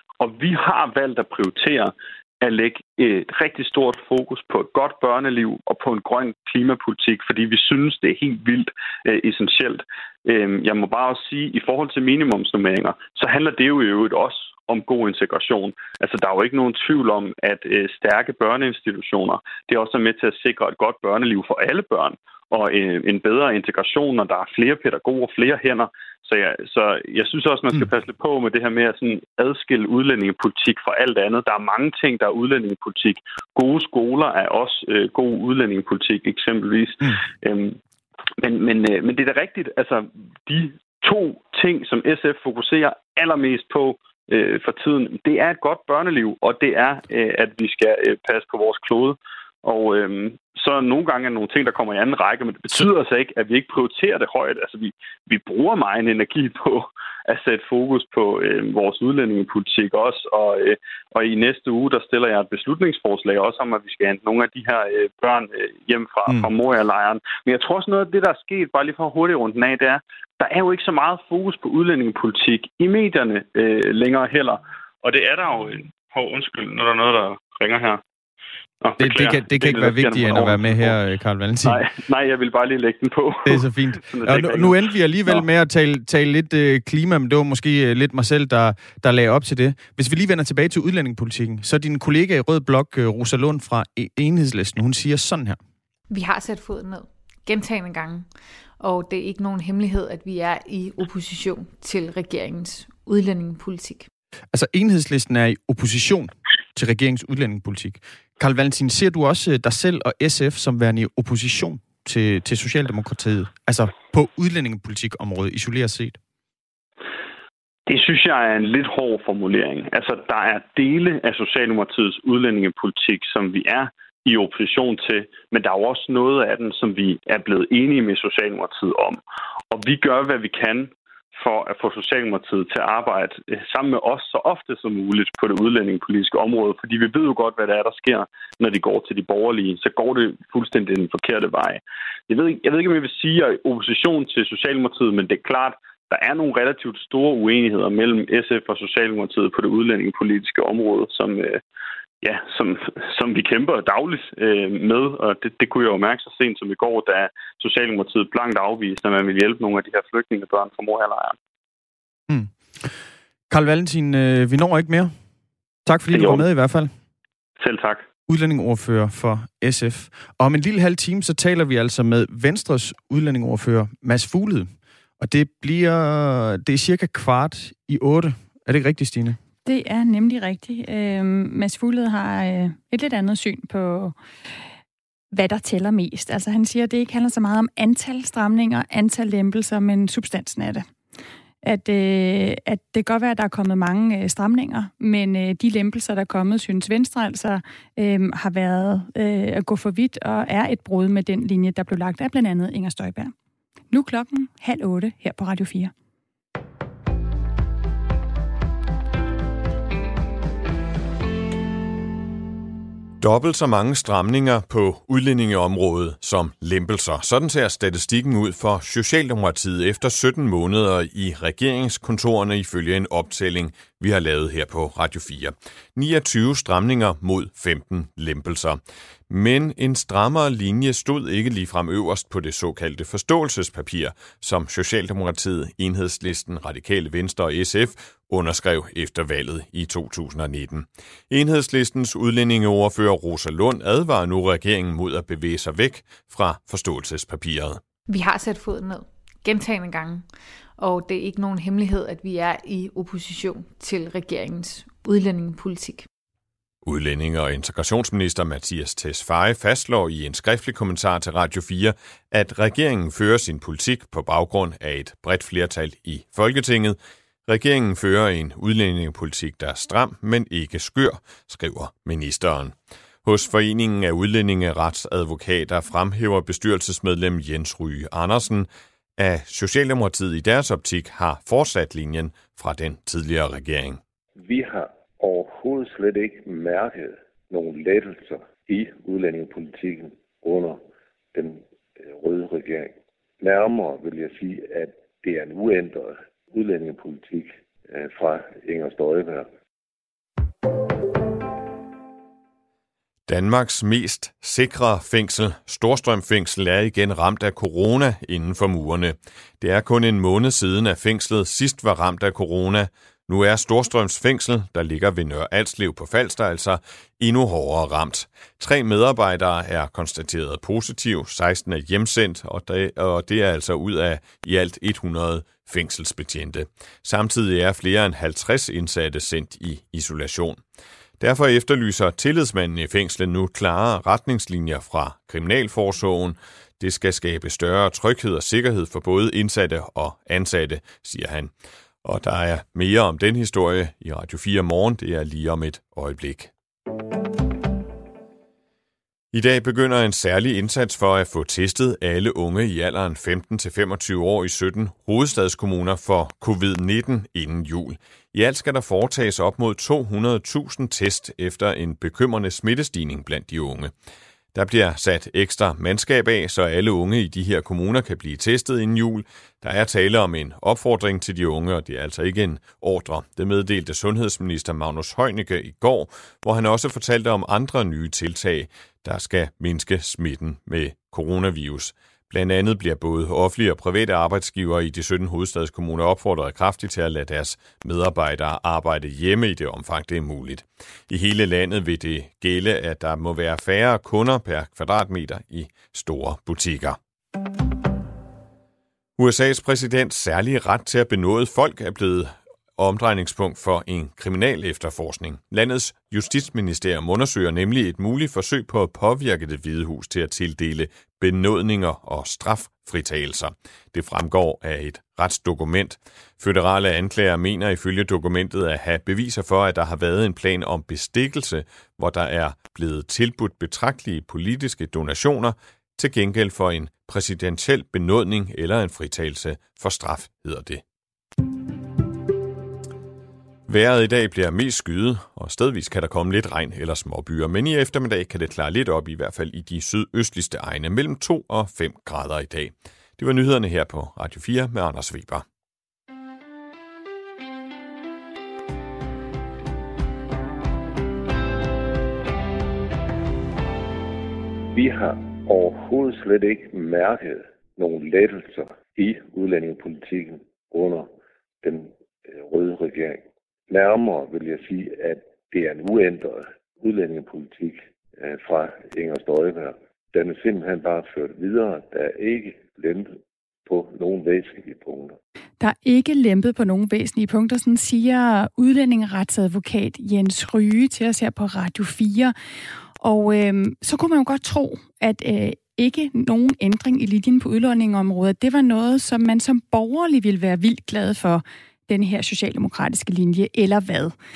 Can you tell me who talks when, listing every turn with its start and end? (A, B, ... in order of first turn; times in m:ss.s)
0:00.2-0:37.8 A
0:38.4-1:18.0 A
1:18.8-1:21.0 A
1:19.0-1:21.8 B
1:21.6-1:25.4 A
1:23.4-1:35.6 B
1:36.1-1:38.3 C
1:38.8-1:44.1 C
1:44.5-1:56.2 B
1:57.9-2:09.2 A
2:09.7-2:31.6 A
2:32.2-2:41.4 A
2:42.3-2:42.9 B
2:43.5-2:45.1 B
2:45.9-2:46.9 B
2:46.1-2:46.4 A
2:47.6-2:48.1 A
2:48.3-2:59.4 B
2:59.6-3:04.2 D
3:05.3-3:10.9 D
3:11.6-3:23.3 D
3:23.9-3:25.9 D
3:33.2-4:07.8 E
4:08.1-4:10.3 C
4:10.8-4:16.1 C
4:16.8-4:44.0 E
4:44.4-4:50.8 F
4:51.3-4:59.5 F
5:03.3-5:30.6 E
5:31.2-5:41.5 E
5:42.0-5:46.5 E
5:49.3-6:03.9 E
6:04.5-6:37.0 E
6:39.2-7:10.8 E
7:13.7-7:25.4 E
7:34.7-7:41.1 F
7:41.6-7:55.2 F
7:55.6-8:02.3 D
8:03.0-8:14.2 D